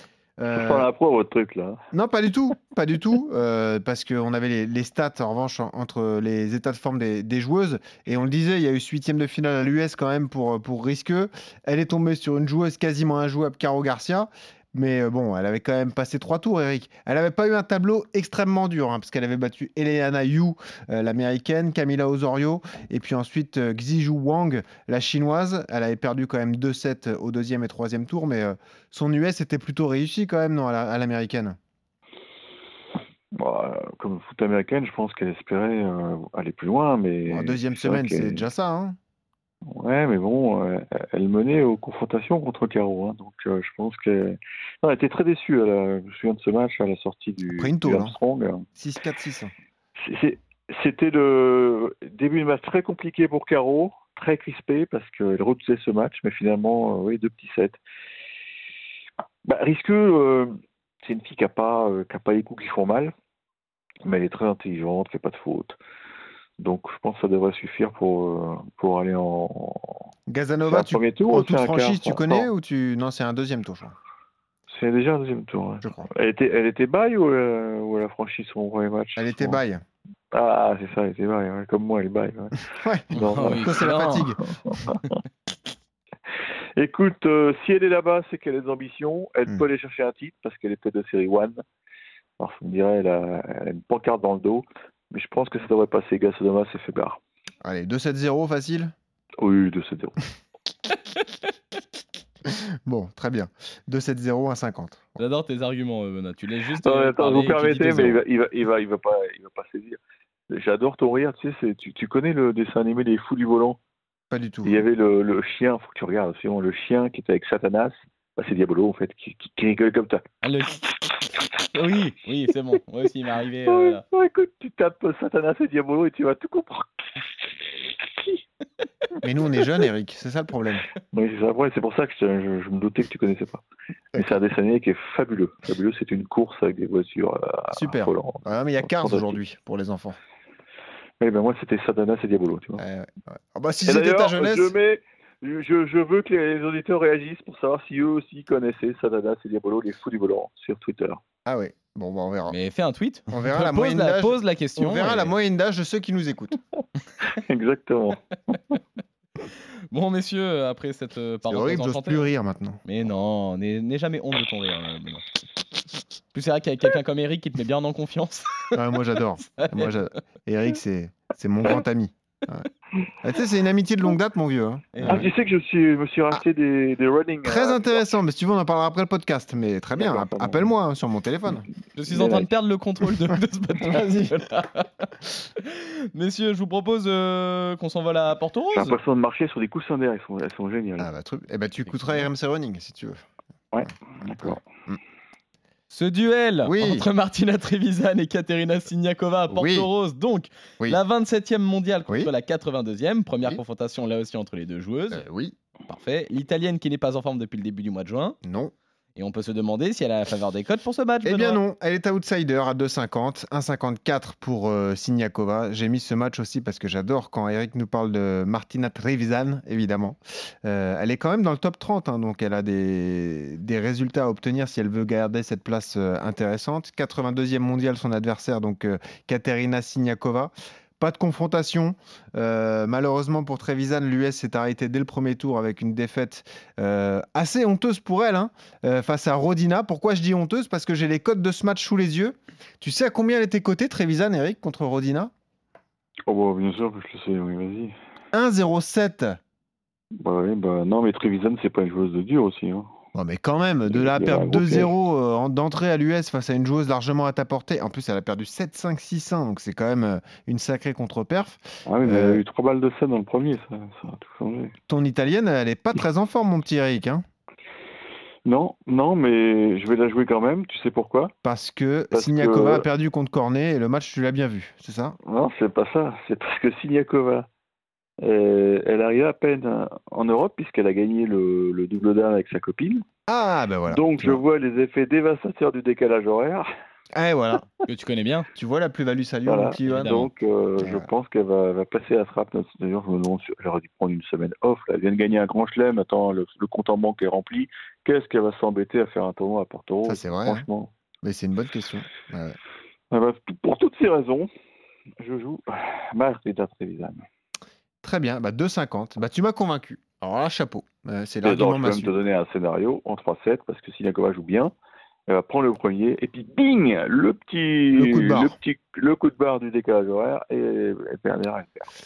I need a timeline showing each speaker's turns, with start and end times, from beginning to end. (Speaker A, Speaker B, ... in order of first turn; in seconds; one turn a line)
Speaker A: 0.4-0.9
Speaker B: 0.5-1.8
Speaker A: 1.9-31.6
Speaker B: 33.3-38.4
Speaker A: 37.3-39.0
Speaker B: 39.7-48.6
Speaker A: 47.5-48.1
Speaker A: 48.8-49.5
Speaker B: 50.0-57.8
Speaker B: 59.4-63.1
Speaker B: 64.0-65.8
Speaker B: 66.6-70.0
Speaker A: 70.3-74.0
Speaker B: 70.7-72.5
Speaker B: 74.7-79.6
Speaker A: 75.8-76.1
Speaker A: 79.2-79.8
Speaker B: 80.3-83.9
Speaker A: 82.8-84.4
Speaker C: 83.1-84.3
Speaker B: 84.5-85.0
Speaker B: 86.8-91.6
Speaker B: 92.4-97.2
Speaker A: 97.6-98.9
Speaker B: 99.4-100.2
Speaker A: 102.5-105.2
Speaker C: 105.2-108.2
Speaker B: 106.8-110.0
Speaker B: 110.5-113.8
Speaker A: 114.3-114.8
Speaker B: 114.6-120.2
Speaker C: 120.4-120.9
Speaker C: 121.7-124.0
Speaker B: 123.7-128.4
Speaker A: 129.2-130.9
Speaker B: 131.1-133.6
Speaker B: 134.1-139.4
Speaker A: 137.7-140.2
Speaker B: 141.2-142.8
Speaker A: 142.8-144.7
Speaker B: 143.8-151.2
Speaker A: 151.4-152.6
Speaker C: 152.5-155.3
Speaker A: 153.3-156.5
Speaker B: 157.3-158.6
Speaker C: 159.9-162.3
Speaker A: 161.4-162.8
Speaker C: 162.8-165.2
Speaker C: 166.3-168.8
Speaker A: 168.7-172.7
Speaker C: 169.6-169.9
Speaker A: 173.2-175.3
Speaker C: 174.9-175.3
Speaker B: 175.0-178.1
Speaker A: 177.4-181.7
Speaker B: 179.9-180.7
Speaker C: 181.9-189.0
Speaker B: 182.1-182.5
Speaker A: 183.8-184.3
Speaker B: 188.7-191.1
Speaker A: 191.0-193.2
Speaker C: 191.8-192.3
Speaker B: 193.7-194.7
Speaker A: 194.3-195.0
Speaker C: 195.9-205.2
Speaker A: 196.6-197.1
Speaker A: 199.5-199.9
Speaker A: 205.1-205.6
Speaker C: 205.8-208.4
Speaker A: 208.4-208.7
Speaker C: 209.2-211.6
Speaker A: 211.2-245.3
Speaker B: 246.3-247.9
Speaker A: 248.3-249.4
Speaker B: 250.2-252.9
Speaker A: 253.1-262.4
Speaker B: 253.9-254.9
Speaker B: 261.9-264.7
Speaker A: 264.9-267.2
Speaker B: 268.4-271.3
Speaker A: 271.4-275.2
Speaker B: 272.1-272.9
Speaker B: 275.2-277.5
Speaker B: 278.2-283.0
Speaker A: 283.3-284.4
Speaker B: 283.9-286.6
Speaker A: 287.1-287.6
Speaker C: 287.9-288.5
Speaker A: 288.5-290.2
Speaker B: 289.4-300.9
Speaker C: 289.9-290.3
Speaker A: 290.8-291.1
Speaker A: 300.0-300.6
Speaker A: 301.2-302.6
Speaker B: 303.1-304.5
Speaker B: 305.2-307.2
Speaker A: 308.0-312.2
Speaker B: 311.4-314.7
Speaker B: 315.3-321.9
Speaker A: 317.9-318.6